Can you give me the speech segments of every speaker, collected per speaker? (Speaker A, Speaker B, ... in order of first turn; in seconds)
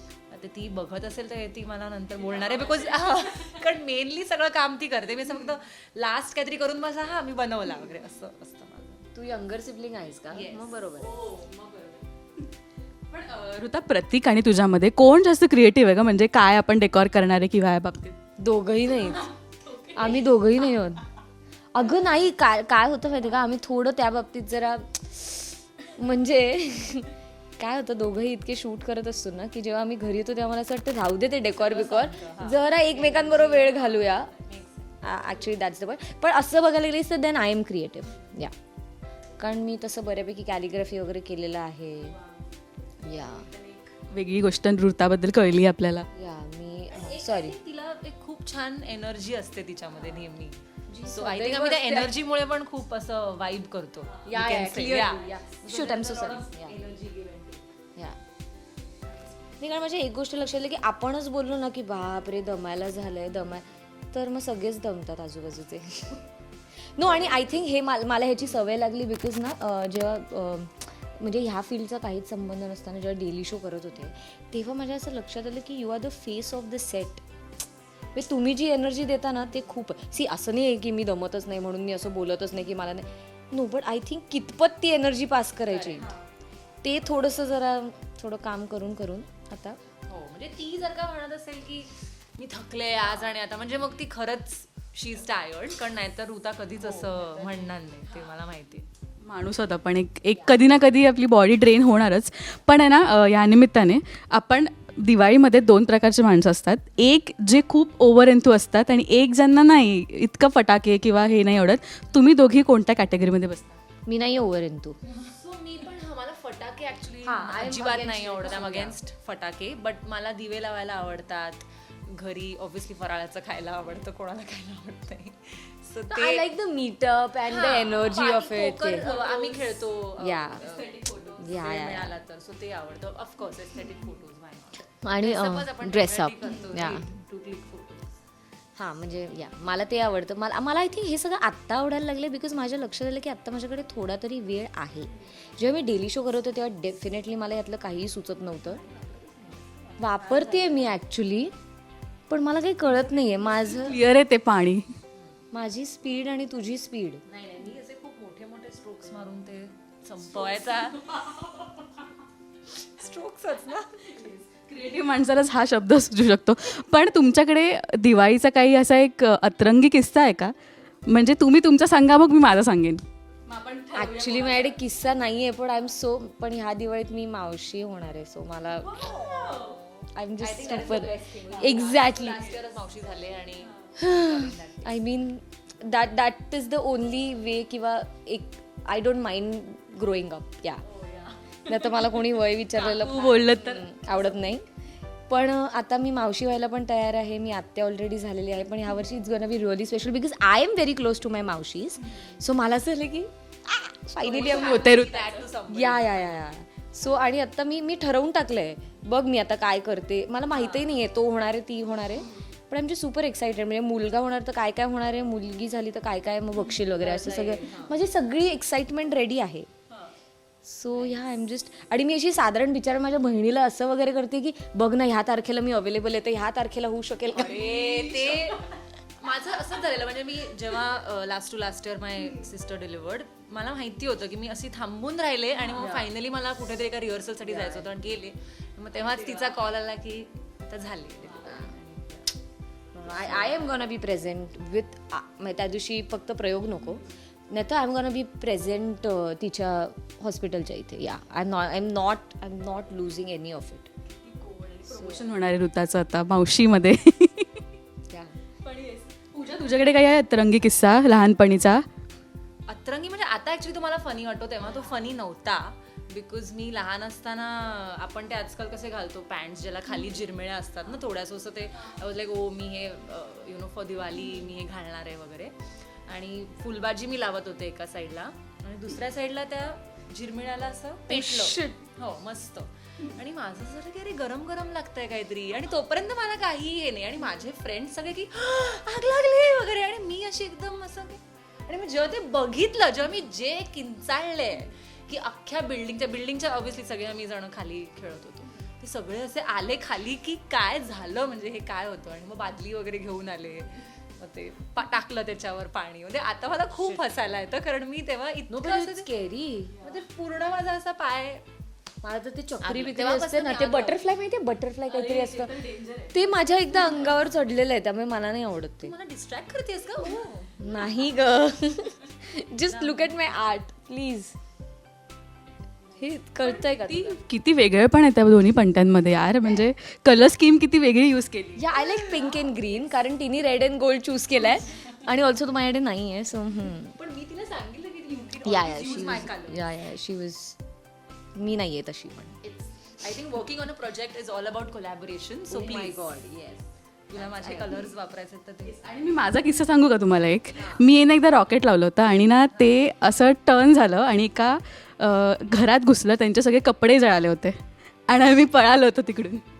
Speaker A: 0.3-9.1, 10.3-12.0, 31.5-35.3, 46.9-57.6, 85.7-86.2, 90.0-98.8, 115.1-126.5, 127.5-138.1, 148.7-151.0, 157.3-161.2, 162.7-164.3, 179.0-185.0, 190.9-191.4, 192.7-193.8, 204.2-206.5, 210.5-210.9, 216.8-218.0, 220.9-221.2, 227.3-242.3, 243.1-243.8, 262.7-275.6, 276.1-309.1, 309.8-311.4, 312.6-314.1, 318.8-320.6, 322.7-323.4, 336.9-339.6, 342.5-346.1, 347.1-348.9, 352.5-352.8
Speaker B: 2.4-2.9, 11.2-12.0, 13.1-18.1, 19.0-20.2, 43.3-46.1, 96.9-97.3, 99.2-113.8, 129.1-129.8, 130.6-131.6, 153.7-154.9, 160.4-161.8, 164.1-170.6, 171.1-174.8, 179.0-179.7, 191.7-192.0, 193.1-193.9, 204.4-205.1, 239.0-239.4, 254.2-257.5, 258.6-261.8, 314.9-316.2, 326.6-331.7, 348.6-357.6, 358.1-359.4
Speaker C: 9.2-11.2, 18.4-19.3, 19.9-21.0, 21.7-34.3, 35.0-38.5, 39.4-42.2, 43.0-43.5, 46.1-47.5, 50.9-52.2, 54.2-56.8, 59.6-66.2, 67.0-77.2, 78.1-86.1, 86.8-89.8, 114.1-115.0, 117.2-119.0, 126.1-129.2, 130.2-130.6, 131.4-132.1, 135.0-137.1, 138.8-148.8, 150.0-151.5, 152.3-154.0, 155.5-157.2, 173.9-179.6, 180.2-182.6, 184.0-190.8, 191.7-194.7, 195.3-219.7, 220.7-227.9, 235.7-236.1, 237.4-237.9, 242.9-253.9, 254.9-255.2, 258.1-258.4, 281.1-281.8, 306.8-307.0, 308.5-309.8, 312.0-315.6, 316.1-318.9, 320.1-324.4, 326.0-327.2, 331.6-337.0, 338.4-340.6, 341.4-342.4, 345.5-347.9, 350.6-350.9